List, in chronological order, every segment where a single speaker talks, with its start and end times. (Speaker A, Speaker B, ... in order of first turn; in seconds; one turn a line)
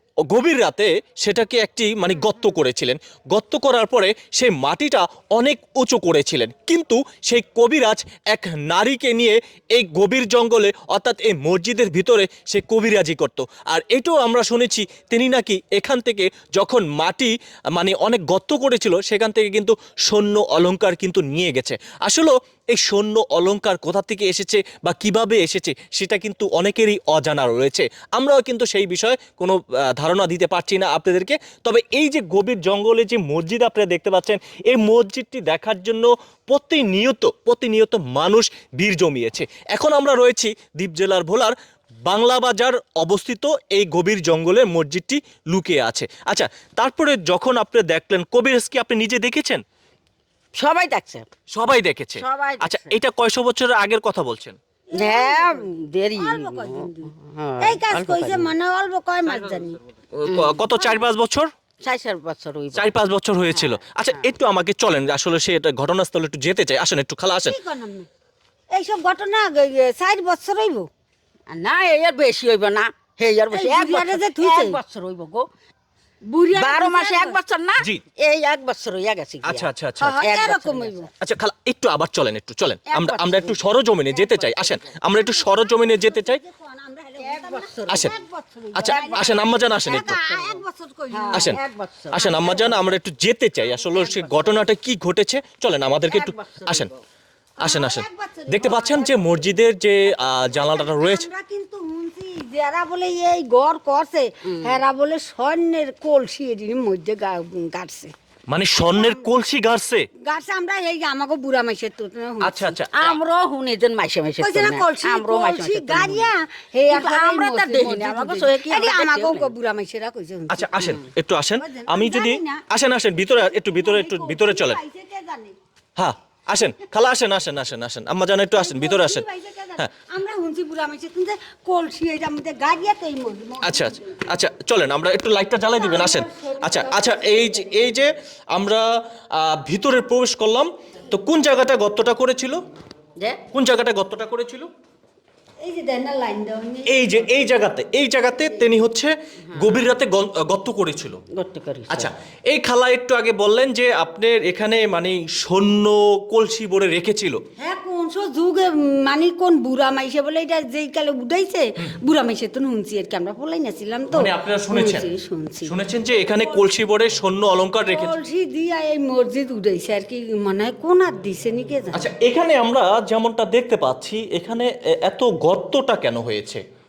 Speaker A: 0.2-49.6
Speaker B: 50.5-51.2
Speaker A: 51.5-54.6
Speaker B: 52.2-53.0
Speaker C: 54.9-59.8
Speaker B: 54.9-58.5
Speaker A: 60.1-61.5
Speaker B: 60.2-60.6
Speaker C: 60.8-61.0
Speaker B: 61.8-62.9
Speaker A: 62.7-67.6
Speaker B: 63.5-64.3
Speaker C: 67.4-68.1
Speaker C: 68.7-70.9
Speaker B: 71.5-75.5
Speaker C: 73.5-74.8
Speaker C: 76.3-77.4
Speaker B: 76.5-79.7
Speaker A: 79.4-80.2
Speaker C: 80.0-81.1
Speaker B: 80.2-81.0
Speaker A: 81.2-86.4
Speaker B: 82.9-84.9
Speaker C: 85.1-91.6
Speaker B: 87.2-88.1
Speaker A: 87.9-88.1
Speaker A: 88.7-90.2
Speaker B: 88.8-92.8
Speaker A: 92.1-96.9
Speaker C: 92.2-92.4
Speaker B: 93.9-94.5
Speaker B: 96.1-97.0
Speaker A: 97.6-101.3
Speaker C: 97.6-108.1
Speaker B: 104.5-104.8
Speaker A: 108.5-110.1
Speaker C: 108.8-109.2
Speaker C: 110.2-112.8
Speaker A: 112.4-113.2
Speaker B: 112.9-116.3
Speaker C: 114.4-121.1
Speaker B: 116.9-119.5
Speaker A: 120.5-124.8
Speaker C: 121.6-122.6
Speaker C: 123.2-125.5
Speaker A: 126.0-129.2
Speaker C: 128.5-134.1
Speaker A: 133.6-142.6
Speaker C: 135.8-137.9
Speaker A: 143.5-144.7
Speaker C: 145.6-147.3
Speaker A: 146.8-151.2
Speaker B: 151.3-152.1
Speaker A: 151.9-157.4
Speaker C: 157.6-166.7
Speaker A: 164.1-165.1
Speaker A: 165.7-168.1
Speaker C: 167.8-172.1
Speaker A: 171.9-176.6